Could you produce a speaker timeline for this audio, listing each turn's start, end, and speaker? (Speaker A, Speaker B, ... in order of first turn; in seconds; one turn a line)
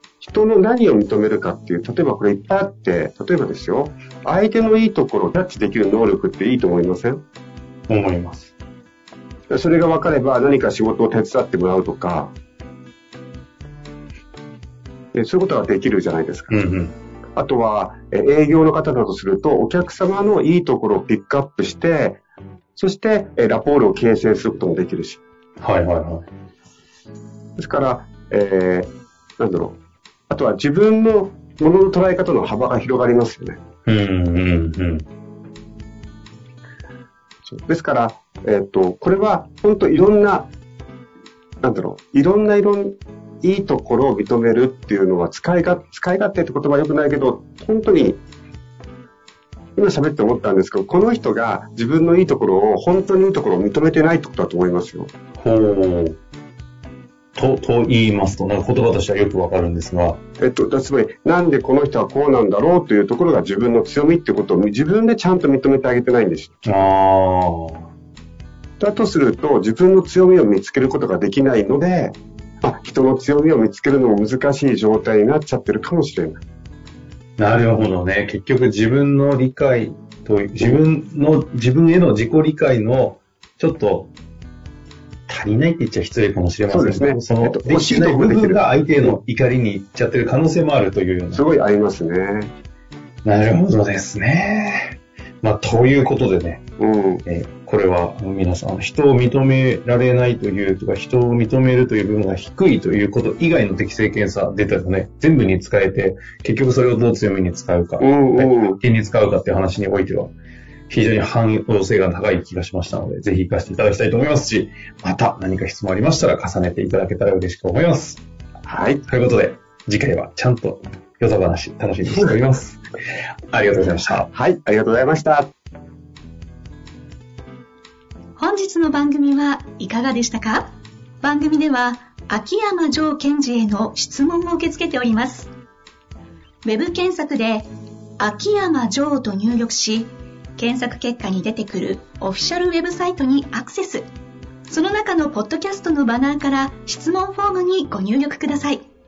Speaker A: 0.2-7.2
Speaker B: 7.9-8.5
Speaker A: 9.5-12.3
Speaker A: 15.1-16.5
Speaker B: 16.5-16.9
Speaker A: 17.4-22.2
Speaker A: 22.8-25.2
Speaker B: 25.6-26.3
Speaker A: 27.6-29.8
Speaker A: 30.3-33.6
Speaker B: 33.9-35.0
Speaker A: 37.5-40.5
Speaker A: 41.6-48.2
Speaker A: 49.8-55.1
Speaker B: 55.4-56.2
Speaker B: 57.4-60.2
Speaker A: 60.4-66.6
Speaker B: 66.7-67.9
Speaker A: 68.8-76.4
Speaker B: 77.4-84.1
Speaker B: 85.3-91.4
Speaker A: 86.7-89.2
Speaker A: 91.3-92.5
Speaker B: 93.2-96.6
Speaker A: 96.8-97.2
Speaker B: 97.2-110.3
Speaker A: 108.0-108.8
Speaker B: 110.9-118.2
Speaker A: 118.6-119.0
Speaker B: 119.1-122.8
Speaker B: 123.5-124.3
Speaker A: 124.3-125.5
Speaker C: 128.4-135.5
Speaker C: 136.6-137.7
Speaker C: 138.2-144.1
Speaker C: 144.7-148.8